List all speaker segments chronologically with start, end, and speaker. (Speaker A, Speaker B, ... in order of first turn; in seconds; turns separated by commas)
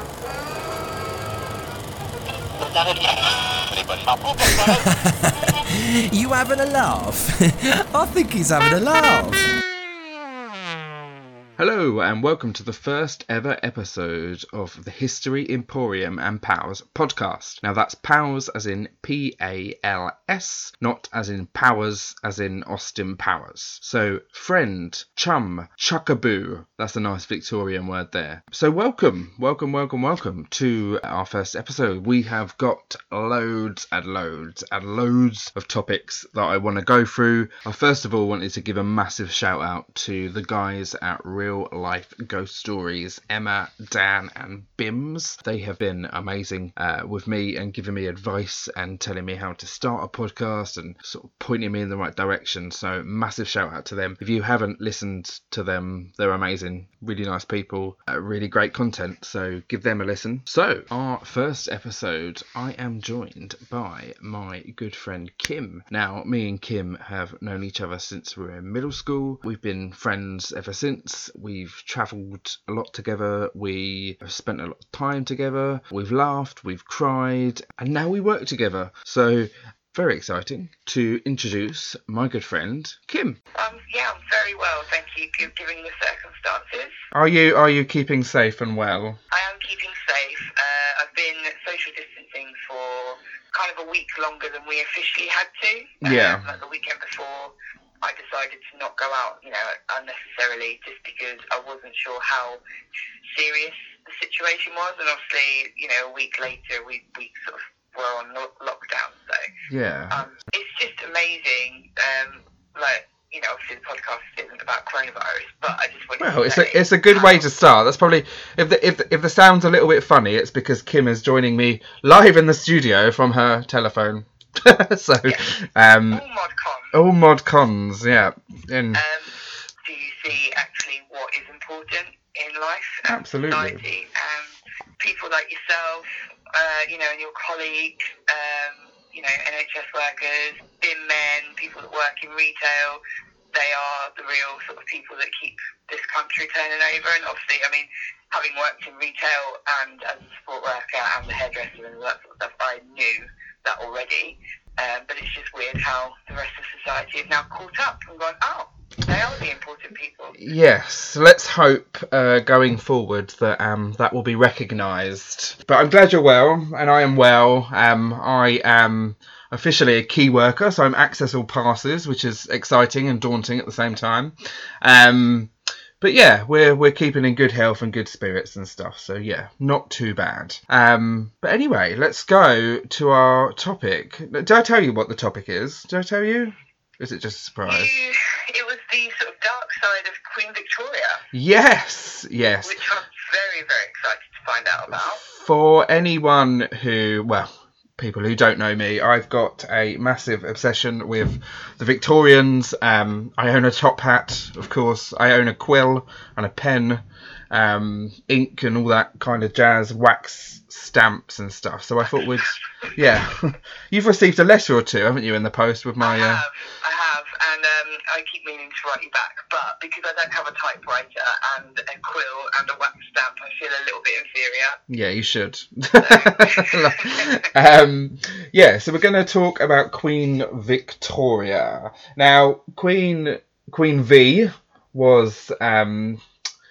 Speaker A: 4.4-9.4, Speaker B: 11.6-83.4, Speaker C: 83.5-86.9, Speaker B: 87.1-89.2, Speaker C: 89.3-102.6, Speaker B: 96.0-96.5, Speaker C: 103.3-109.5, Speaker B: 109.7-110.2, Speaker C: 110.1-117.5, Speaker B: 116.2-126.2, Speaker C: 126.1-127.0, Speaker B: 126.9-129.0, Speaker C: 128.9-143.0, Speaker B: 133.1-133.8, Speaker C: 143.5-160.4, Speaker B: 160.4-187.9, Speaker C: 187.6-191.2, Speaker B: 191.3-192.8, Speaker C: 192.6-195.2, Speaker B: 195.2-216.4, Speaker C: 216.0-224.8, Speaker B: 224.9-236.2, Speaker C: 226.0-227.4